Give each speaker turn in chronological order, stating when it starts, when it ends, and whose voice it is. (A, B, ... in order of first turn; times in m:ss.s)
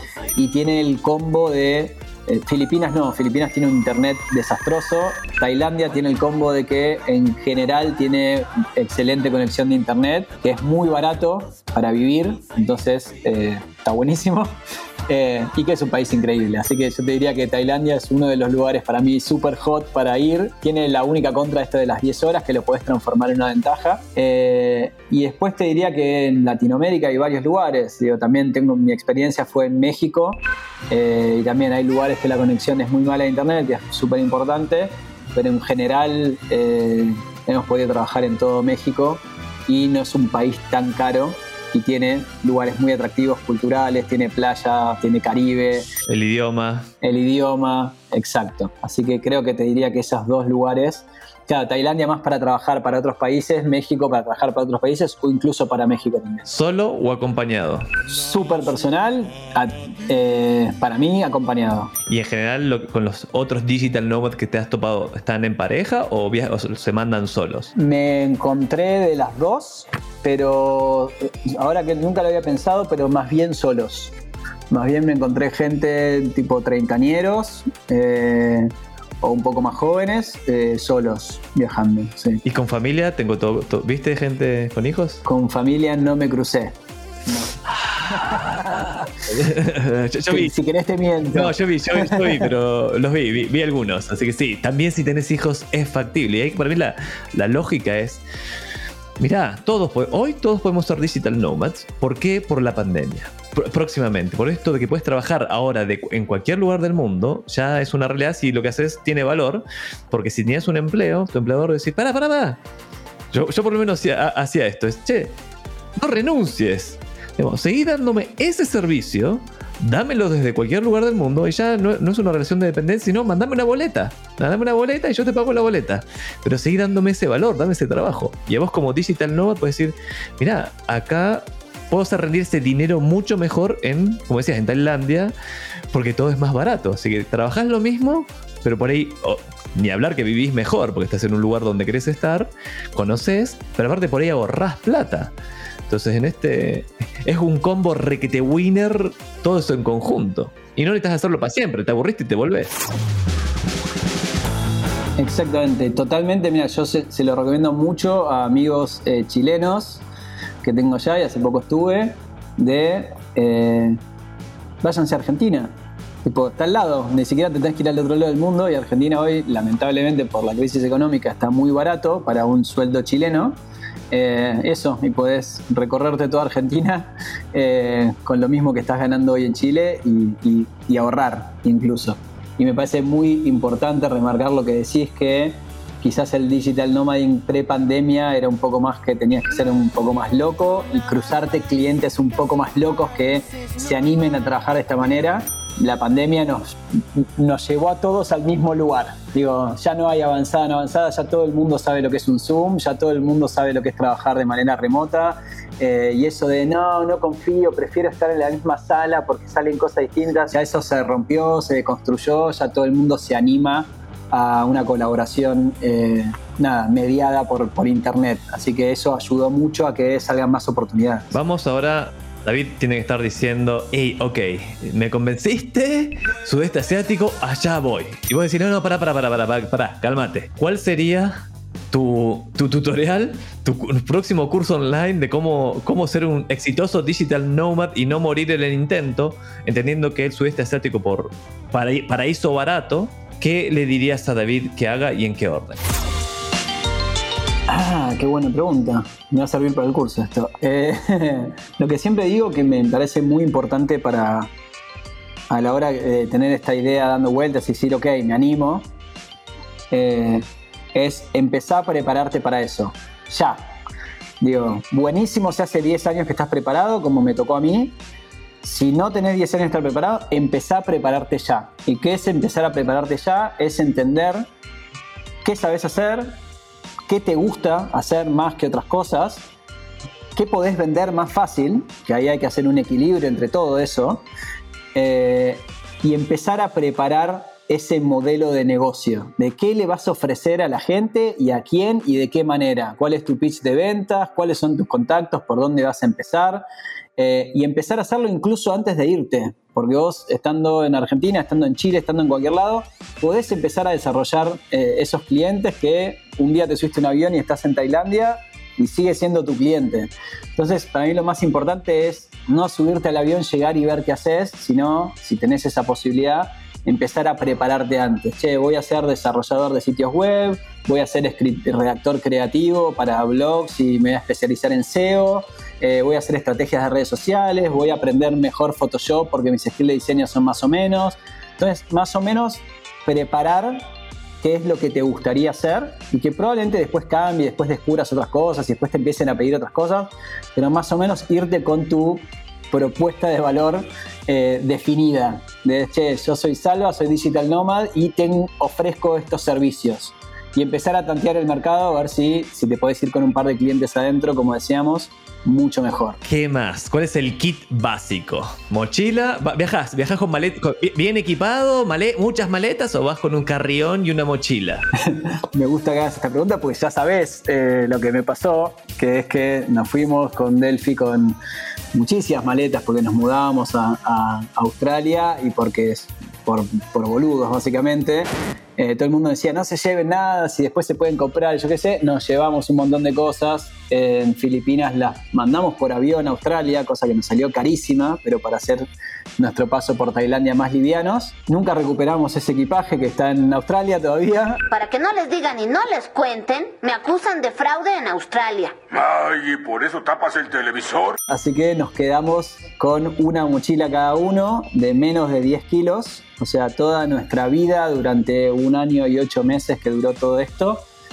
0:00.3-0:45.9 A
0:46.1-0:46.9 B
0:47.0-0:56.5 A
0:56.4-0:57.9 B
0:58.1-1:01.9 A
1:02.1-1:07.7 B
1:07.7-1:14.1 A
1:14.7-1:22.4 A
1:22.4-1:25.2 B
1:25.2-1:26.7 A
1:27.7-1:30.5 B
1:30.3-1:32.5 A
1:31.3-1:38.2 B
1:39.2-1:52.6 B
1:53.3-1:55.4 B
1:56.0-2:15.3 B
2:15.9-2:25.3 B
2:25.9-2:32.9 B
2:35.2-2:40.0 A
2:40.6-2:44.0 A
2:44.8-2:53.6 A
2:54.1-3:41.3 A
3:41.3-4:05.9 B
4:07.7-4:14.5 A
4:15.5-4:18.9 A
4:19.9-4:23.7 A
4:24.4-4:28.0 A
4:28.6-4:34.5 A
4:35.4-4:36.4 A
4:37.1-4:39.5 A
4:40.3-4:44.2 A
4:44.9-4:56.6 A
4:57.2-5:33.9 A
5:34.4-5:56.2 A
5:56.2-6:04.8 B
6:05.0-6:11.4 A
6:11.9-6:34.6 A
6:34.7-6:38.8 C
6:38.9-6:41.2 D
6:41.3-6:50.8 A